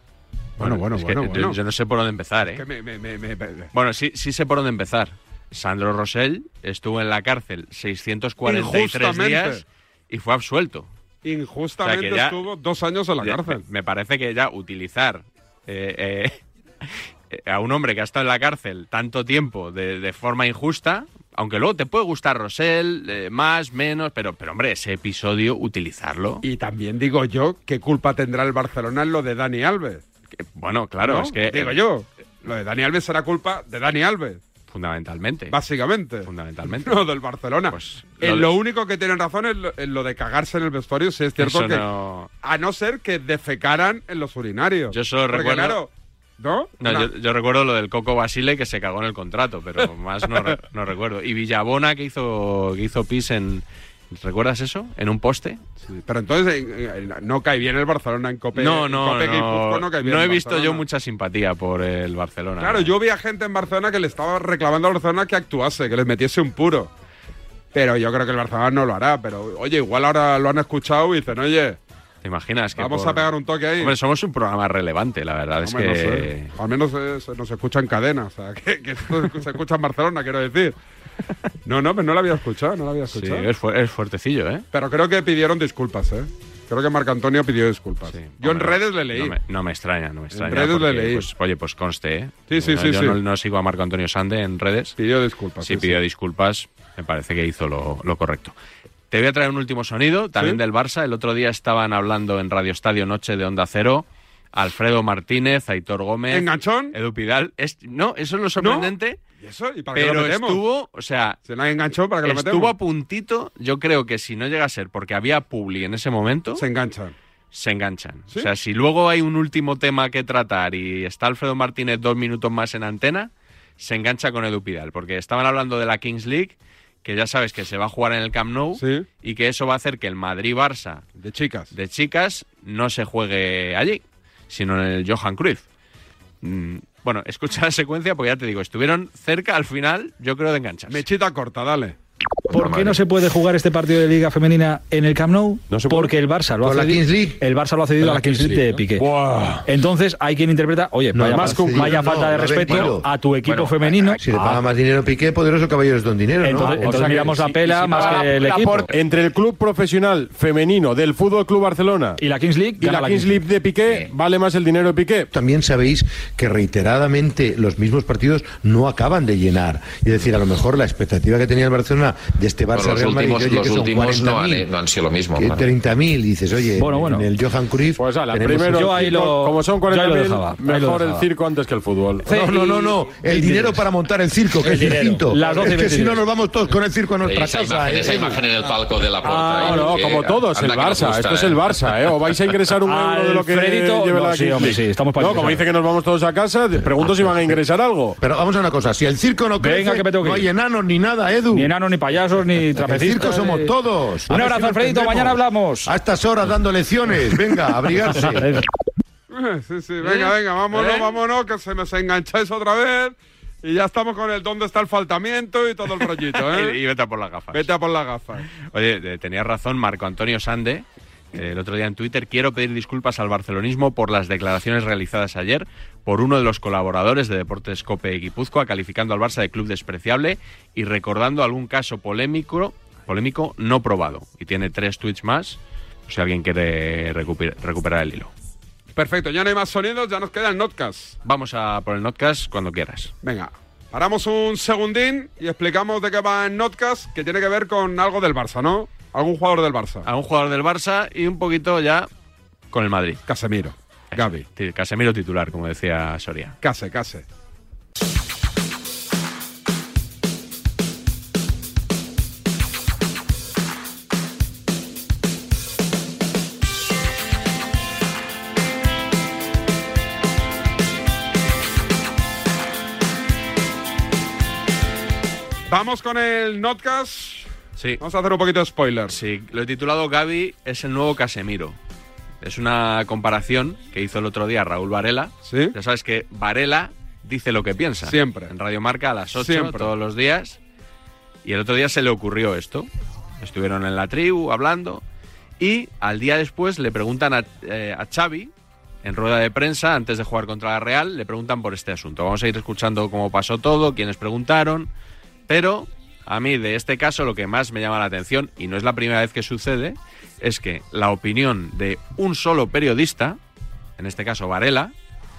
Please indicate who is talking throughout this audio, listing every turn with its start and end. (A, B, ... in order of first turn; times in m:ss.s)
0:00.6-0:01.6 A
0:00.6-0:02.6 B
0:02.6-0:03.7 A
0:03.7-0:10.9 B
0:08.4-0:09.6 A
0:11.2-0:13.6 A
0:11.8-0:12.4 B
0:13.2-0:16.4 B
0:17.3-0:26.4 B
0:26.4-0:30.0 A
0:30.4-0:31.8 B
0:31.0-0:34.4 A
0:34.7-0:35.6 B
0:35.5-0:41.8 A
0:36.2-0:37.0 B
0:37.7-0:38.5 B
0:41.4-0:42.3 B
0:42.4-0:47.1 A
0:44.9-0:45.8 B
0:46.8-0:55.6 B
0:55.9-1:00.8 A
0:58.6-1:02.9 B
1:02.6-1:06.9 A
1:07.7-1:11.8 A
1:12.2-1:16.5 B
1:12.8-1:14.0 A
1:15.6-1:20.8 A
1:21.7-1:23.5 A
1:23.1-1:24.7 B
1:24.7-1:29.4 A
1:28.1-1:35.0 B
1:30.3-1:31.3 A
1:32.5-1:33.2 A
1:35.0-1:36.0 A
1:35.6-1:38.6 B
1:39.1-1:49.2 B
1:46.3-1:47.0 A
1:48.6-1:50.6 A
1:49.9-1:51.4 B
1:51.5-1:52.7 A
1:52.2-1:56.6 B
1:56.6-1:57.1 A
1:57.5-2:11.0 B
2:08.8-2:09.0 A
2:11.2-2:11.7 A
2:11.7-2:15.6 B
2:16.4-2:21.0 B
2:20.9-2:22.0 A
2:22.5-2:23.0 C
2:22.5-2:29.1 D
2:25.7-2:26.1 E
2:26.6-2:27.4 F
2:28.0-2:29.7 E
2:29.7-2:34.6 D
2:31.1-2:33.1 F
2:31.3-2:32.2 E
2:33.4-2:34.2 C
2:34.2-2:37.2 F
2:36.4-2:38.9 D
2:36.9-2:37.3 E
2:38.9-2:42.2 E
2:42.2-2:43.4 D
2:42.8-2:45.3 E
2:45.3-2:54.7 F
2:52.7-2:55.7 C
2:55.4-2:58.8 F
2:56.8-2:57.3 D
2:58.0-3:02.3 E
2:58.6-3:01.3 D
3:02.2-3:08.5 F
3:02.3-3:03.8 D
3:04.6-3:06.3 D
3:07.2-3:11.6 C
3:09.2-3:10.1 D
3:09.6-3:18.2 E
3:12.8-3:15.7 D
3:18.2-3:21.7 F
3:19.6-3:20.5 D
3:21.5-3:23.7 D
3:22.8-3:28.5 F
3:24.3-3:26.0 D
3:29.3-3:36.8 A
3:30.0-3:31.2 B
3:36.3-3:37.7 B
3:37.5-3:38.5 A
3:38.6-3:58.3 B
3:59.0-4:01.2 A
4:01.2-4:03.1 B
4:03.2-4:10.1 A
4:10.1-4:12.1 B
4:12.7-4:13.2 B
4:13.3-4:14.4 A
4:14.1-4:16.6 B
4:16.6-4:17.2 A
4:35.7-4:37.5 A
4:38.0-4:39.2 A
4:39.1-4:41.8 B
4:42.4-4:50.6 B
4:45.5-4:45.7 A
4:48.0-4:48.5 A
4:49.4-4:49.9 A
4:51.4-4:52.9 B
4:53.4-4:55.0 B
4:55.6-4:58.5 B
4:59.0-5:04.9 B
5:05.5-5:13.4 B
5:14.0-5:14.9 B